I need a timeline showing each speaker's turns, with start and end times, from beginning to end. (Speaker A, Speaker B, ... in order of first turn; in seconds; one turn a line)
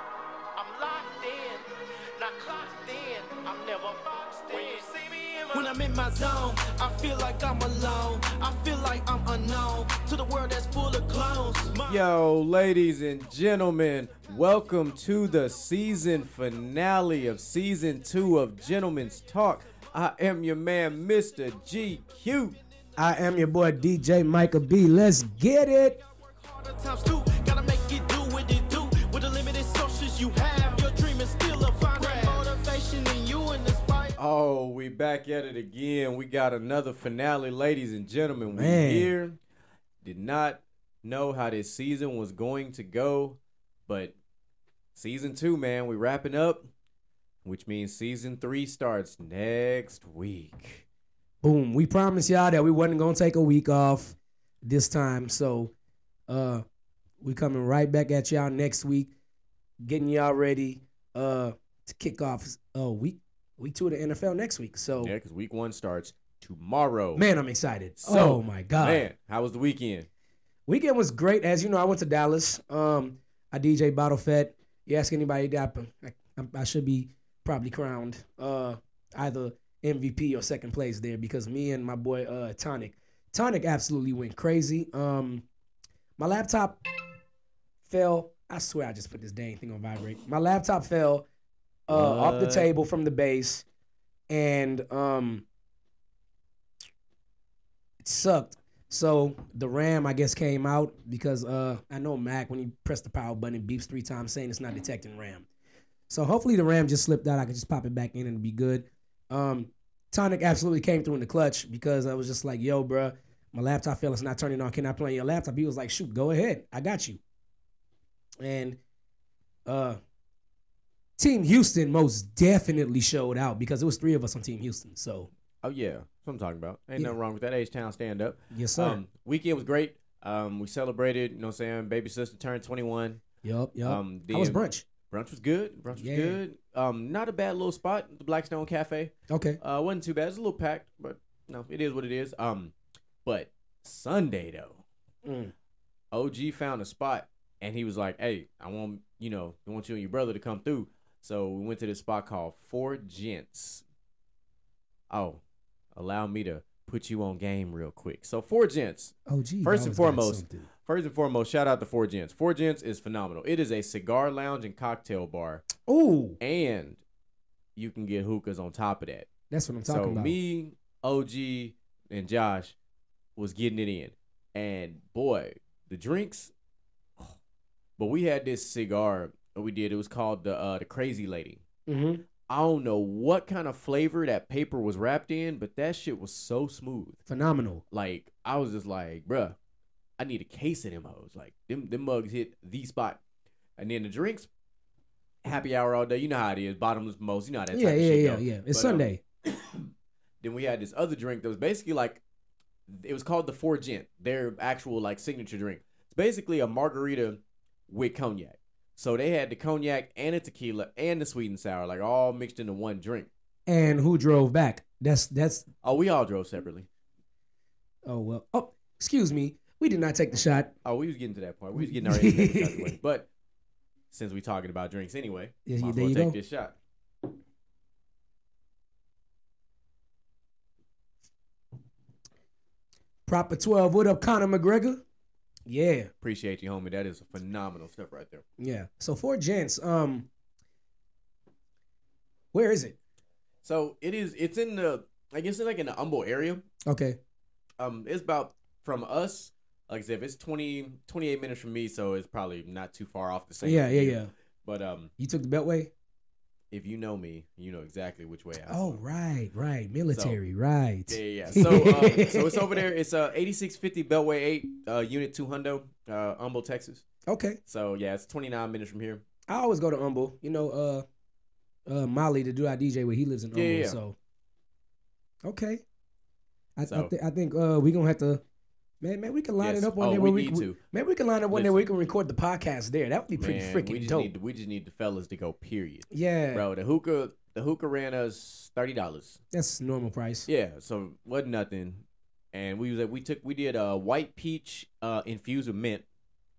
Speaker A: 0.5-12.0
Speaker B: 11.8-22.6
Speaker C: 23.0-26.0
Speaker A: 26.4-34.1
Speaker B: 34.2-39.4
Speaker C: 38.5-39.1
Speaker B: 40.0-44.1
Speaker B: 45.0-46.7
Speaker B: 47.4-50.8
Speaker C: 51.4-55.7
Speaker C: 56.3-56.6
Speaker C: 57.2-59.1
Speaker C: 59.8-65.1
Speaker B: 65.0-67.2
Speaker C: 67.2-69.1
Speaker B: 68.0-70.1
Speaker C: 70.7-85.5
Speaker C: 86.2-86.8
Speaker C: 87.9-91.2
Speaker C: 91.9-93.6
Speaker B: 91.9-92.7
Speaker C: 94.3-95.5
Speaker C: 98.0-105.5
Speaker C: 106.1-117.2
Speaker C: 118.4-118.8
Speaker C: 119.7-120.0
Speaker C: 121.2-125.3
Speaker B: 125.6-133.2
Speaker C: 128.5-129.0
Speaker C: 133.4-134.8
Speaker B: 133.8-142.7
Speaker C: 135.9-136.4
Speaker C: 139.3-139.6
Speaker B: 143.2-144.8
Speaker C: 145.2-145.5
Speaker B: 146.1-153.8
Speaker B: 155.1-155.4
Speaker B: 155.9-165.7
Speaker C: 159.3-160.7
Speaker C: 165.8-166.4
Speaker B: 166.4-167.0
Speaker B: 167.8-169.3
Speaker C: 169.5-170.3
Speaker B: 169.9-172.8
Speaker B: 173.4-176.5
Speaker B: 178.0-181.6
Speaker C: 181.9-182.2
Speaker B: 182.5-187.2
Speaker C: 187.3-187.8
Speaker B: 187.9-189.6
Speaker B: 190.2-193.2
Speaker B: 193.8-194.5
Speaker B: 195.4-199.8
Speaker C: 197.7-199.2
Speaker B: 200.4-202.2
Speaker B: 202.9-213.3
Speaker C: 213.7-215.7
Speaker B: 215.8-216.9
Speaker C: 218.1-220.7
Speaker B: 220.8-223.3
Speaker C: 221.8-223.0
Speaker B: 224.1-226.8
Speaker C: 225.7-226.4
Speaker C: 233.3-235.0
Speaker C: 235.7-236.1
Speaker B: 236.2-238.4
Speaker C: 238.6-240.3
Speaker C: 242.5-243.0
Speaker B: 243.6-246.6
Speaker C: 246.9-247.2
Speaker B: 247.8-255.1
Speaker C: 253.6-254.3
Speaker C: 255.2-255.9
Speaker B: 256.7-259.0
Speaker C: 258.7-262.8
Speaker B: 260.1-260.4
Speaker B: 261.1-267.1
Speaker C: 267.3-267.6
Speaker B: 267.7-269.2
Speaker C: 269.5-271.1
Speaker C: 271.9-274.2
Speaker B: 273.5-274.0
Speaker C: 275.4-275.8
Speaker C: 276.8-278.4
Speaker B: 276.9-277.1
Speaker C: 279.0-284.3
Speaker B: 279.6-280.8
Speaker B: 281.5-281.9
Speaker B: 283.4-289.4
Speaker C: 286.1-286.6
Speaker C: 289.5-290.5
Speaker B: 290.5-296.1